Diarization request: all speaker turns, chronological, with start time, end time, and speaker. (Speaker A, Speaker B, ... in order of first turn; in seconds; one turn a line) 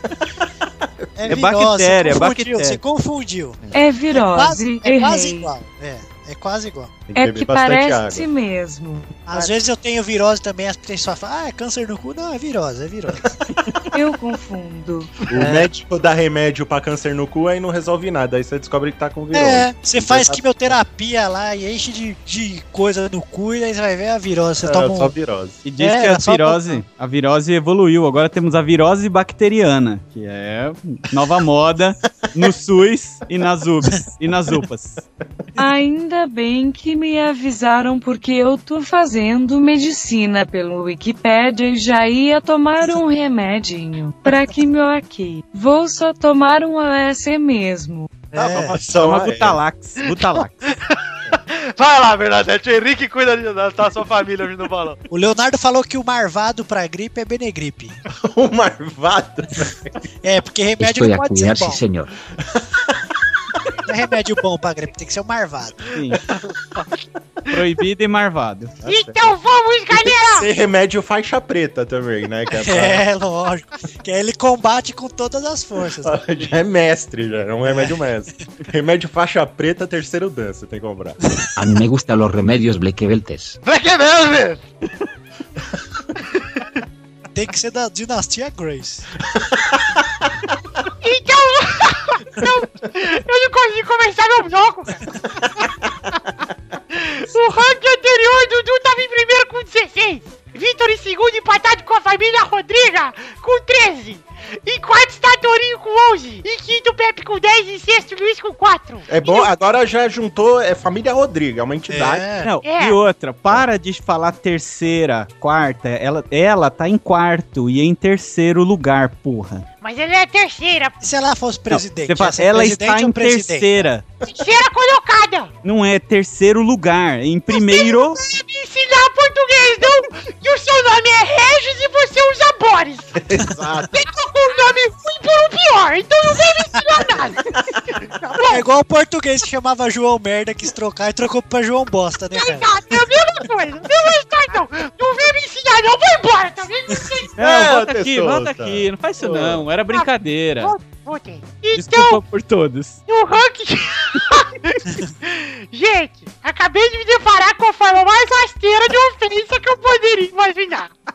Speaker A: 1.0-1.3
Speaker B: 1.2-7.0
Speaker C: 1.3-2.8
Speaker D: 3.7-5.5
Speaker A: 7.1-8.3
Speaker D: 7.1-9.2
Speaker B: 9.3-13.3
Speaker D: 13.9-15.1
Speaker A: 15.3-20.7
Speaker B: 15.3-15.7
Speaker B: 19.3-25.1
Speaker A: 24.6-25.6
Speaker C: 25.6-35.0
Speaker B: 25.8-26.8
Speaker D: 35.6-48.3
Speaker B: 48.3-49.0
Speaker A: 48.4-49.6
Speaker C: 48.9-50.8
Speaker E: 50.9-55.0
Speaker B: 55.1-58.0
Speaker A: 58.1-60.0
Speaker B: 60.2-61.8
Speaker F: 60.8-62.2
Speaker A: 62.5-62.8
Speaker B: 63.9-65.8
Speaker C: 65.9-66.2
Speaker C: 67.5-68.8
Speaker A: 68.8-69.4
Speaker G: 68.8-70.5
Speaker A: 69.9-73.0
Speaker B: 72.5-76.2
Speaker A: 76.0-81.2
Speaker B: 77.6-78.0
Speaker F: 81.6-83.6
Speaker E: 83.6-84.6
Speaker B: 87.3-89.1
Speaker G: 91.0-95.1
Speaker G: 96.9-109.5
Speaker A: 109.1-112.3
Speaker B: 111.9-112.5
Speaker C: 112.4-119.7
Speaker G: 112.6-113.0
Speaker G: 119.8-120.9
Speaker B: 121.0-123.9
Speaker C: 121.7-124.0
Speaker G: 124.3-125.5
Speaker C: 125.6-128.2
Speaker G: 127.5-133.2
Speaker A: 133.2-134.0
Speaker G: 133.9-138.7
Speaker A: 137.6-138.0
Speaker B: 138.5-142.9
Speaker G: 142.3-147.3
Speaker B: 146.9-147.3
Speaker A: 147.4-149.7
Speaker C: 147.4-150.7
Speaker G: 149.9-152.2
Speaker C: 151.7-153.0
Speaker G: 153.1-154.7
Speaker G: 155.2-160.9